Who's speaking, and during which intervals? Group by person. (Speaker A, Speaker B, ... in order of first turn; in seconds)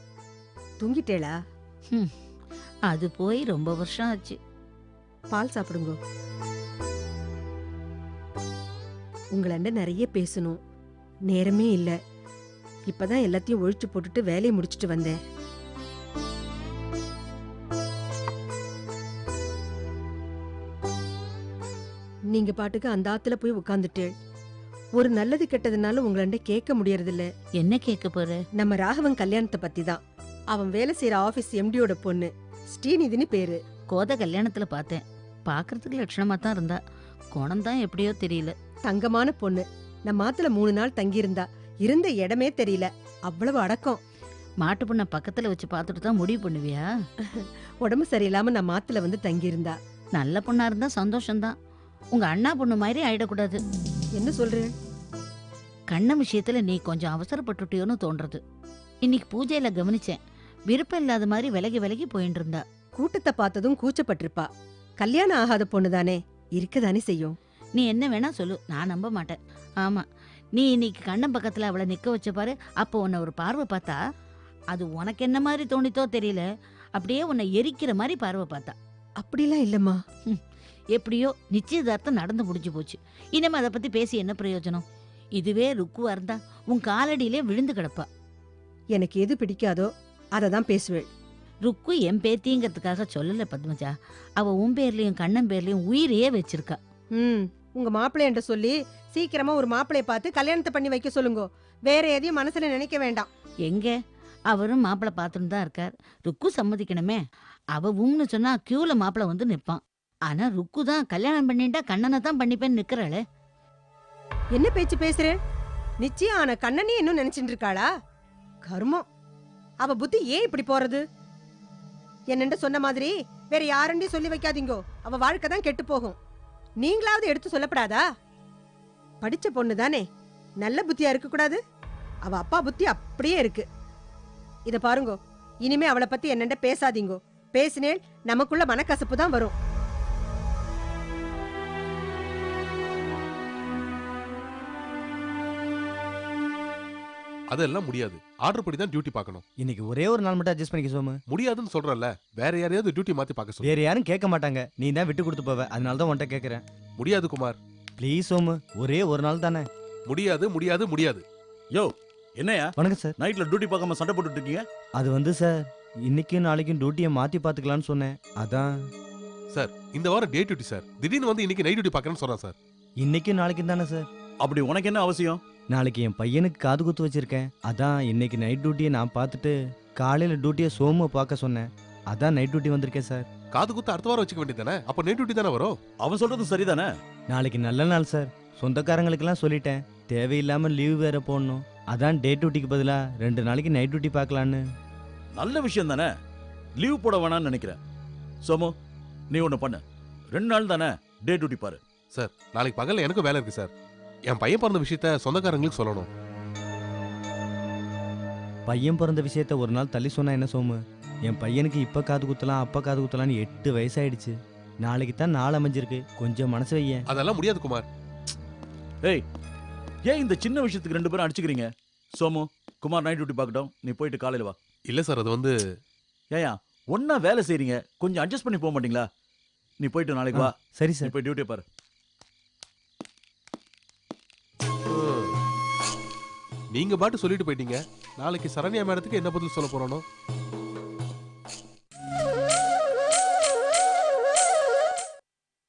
Speaker A: 0.8-1.4, 5.3-6.0, 9.3-10.6, 11.3-11.9, 12.9-15.2, 22.3-24.1, 25.0-27.3, 28.6-33.6, 38.8-44.0, 47.8-49.8, 54.1-54.7, 63.0-64.5, 65.0-67.4, 79.2-80.0, 88.9-91.1, 97.1-103.3, 114.5-115.4, 116.0-117.9, 118.7-119.0, 119.8-121.0, 122.3-126.2, 126.8-128.0, 129.2-130.0, 130.6-131.6, 132.2-133.7, 134.7-139.6
Speaker B: 2.9-4.4, 27.5-28.4, 33.9-36.8, 37.3-38.5, 44.6-46.9, 50.1-51.5, 52.1-53.6, 55.9-58.4, 59.0-62.6, 67.8-70.0, 70.6-74.0, 74.7-76.5, 77.0-78.8, 80.9-84.8, 85.4-88.1, 91.7-96.8, 103.7-104.0, 104.5-107.2, 107.7-113.2
Speaker C: 147.5-149.4, 151.3-153.7, 157.0-157.6, 160.1-161.2, 169.5-172.6, 183.5-185.8, 202.1-203.7, 204.3-206.1, 217.1-217.8, 224.8-225.6, 234.9-235.3, 236.7-240.0
Speaker D: 149.6-151.2, 153.6-156.6, 158.0-159.7, 162.8-163.2, 165.0-168.7, 173.0-174.1, 175.7-183.3, 187.3-194.6, 208.7-217.0, 230.3-231.2
Speaker E: 161.7-164.7, 174.4-175.4, 186.0-186.9, 195.3-196.1, 196.8-197.8, 198.4-198.7, 199.3-201.8, 220.1-224.6, 226.3-229.1, 229.8-231.6